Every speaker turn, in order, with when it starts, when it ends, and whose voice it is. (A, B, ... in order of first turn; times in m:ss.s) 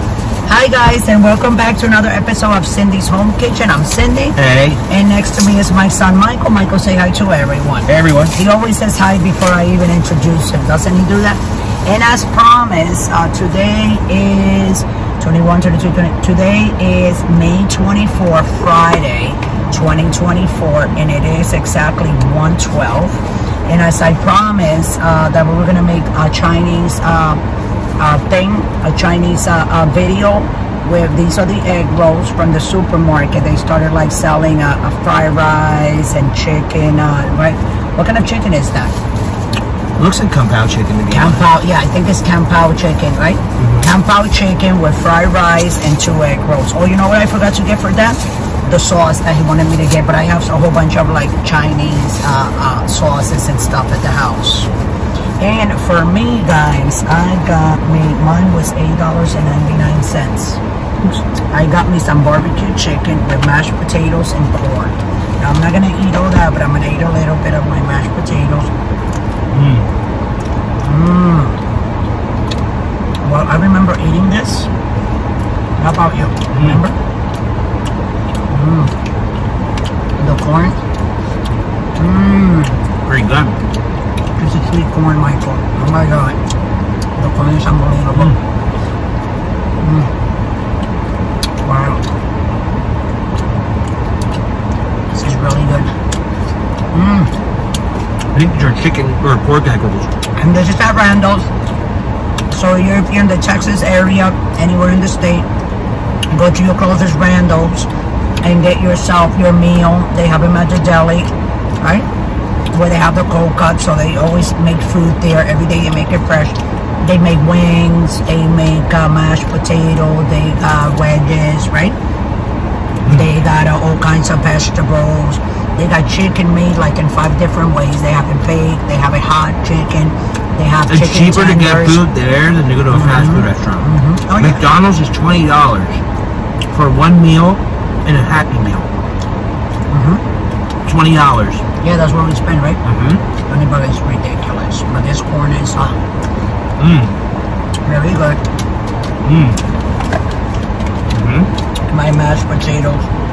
0:00.4-0:04.4 A
0:04.4-0:04.8 B
0:04.9-0:27.4 A
0:07.9-0:08.4 B
0:28.0-0:39.0 A
0:40.0-0:41.5 B
0:41.1-0:54.7 A
0:43.6-0:43.9 B
0:55.4-1:00.6 A
1:01.5-1:08.7 A
1:09.5-1:09.9 B
1:10.8-1:11.6 A
1:13.2-1:14.7 A
1:15.8-1:17.0 A
1:16.5-1:16.8 B
1:18.5-1:18.9 A
1:20.2-1:20.8 A
1:22.0-1:22.8 A
1:23.0-1:23.6 B
1:24.4-1:26.4 A
1:27.2-1:28.3 A
1:29.8-1:30.1 A
1:31.6-1:32.0 A
1:35.1-1:36.0 A
1:36.9-1:37.3 A
1:38.3-1:40.1 B
1:40.4-1:41.5 A
1:42.5-1:45.5 A
1:46.3-1:47.9 A
1:48.4-1:52.1 A
1:52.7-2:02.0 A
2:03.1-2:12.0 A
2:10.9-2:13.9 B
2:12.9-2:14.6 A
2:14.4-2:16.0 B
2:16.7-2:18.9 B
2:19.9-2:20.2 A
2:20.9-2:21.6 B
2:21.8-2:22.8 A
2:22.8-2:23.2 B
2:23.5-2:26.0 A
2:26.8-2:27.1 B
2:27.8-2:28.4 A
2:29.2-2:29.6 B
2:31.1-2:31.5 B
2:31.9-2:33.1 A